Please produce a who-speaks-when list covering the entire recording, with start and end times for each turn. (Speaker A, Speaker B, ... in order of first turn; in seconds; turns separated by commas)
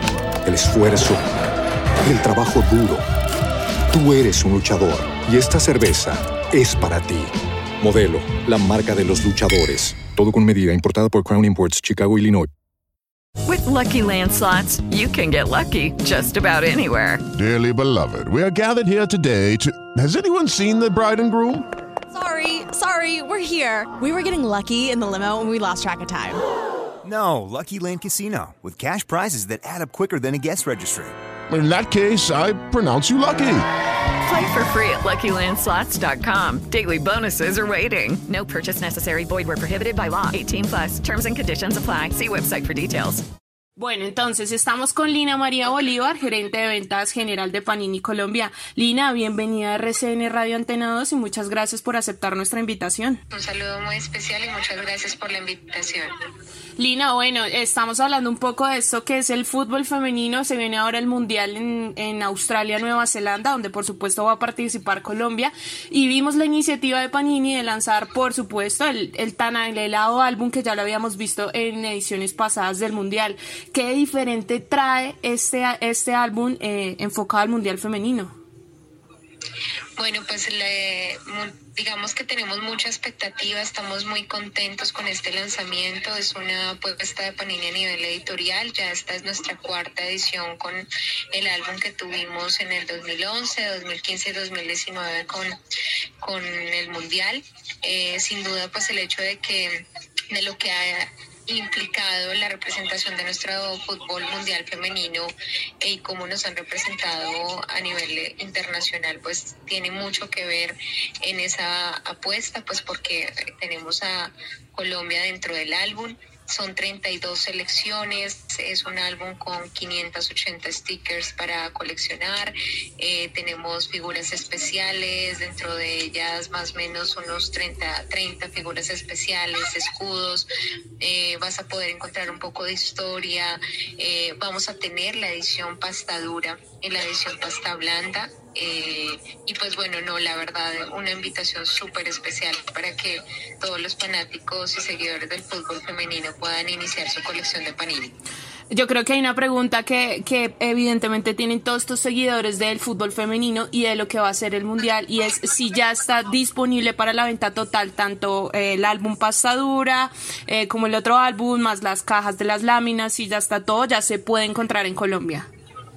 Speaker A: 0.5-1.3, Speaker A: 2.0-3.0, Speaker A: 3.9-12.5, Speaker B: 13.5-17.2, Speaker C: 17.4-21.7, Speaker D: 22.1-26.4, Speaker E: 27.0-31.1, Speaker C: 31.5-33.7, Speaker B: 34.2-43.2, Speaker F: 43.8-53.2, Speaker G: 53.3-56.1, Speaker F: 56.8-78.4, Speaker G: 80.0-95.5, Speaker G: 96.2-130.5, Speaker G: 131.0-148.2, Speaker F: 148.7-165.5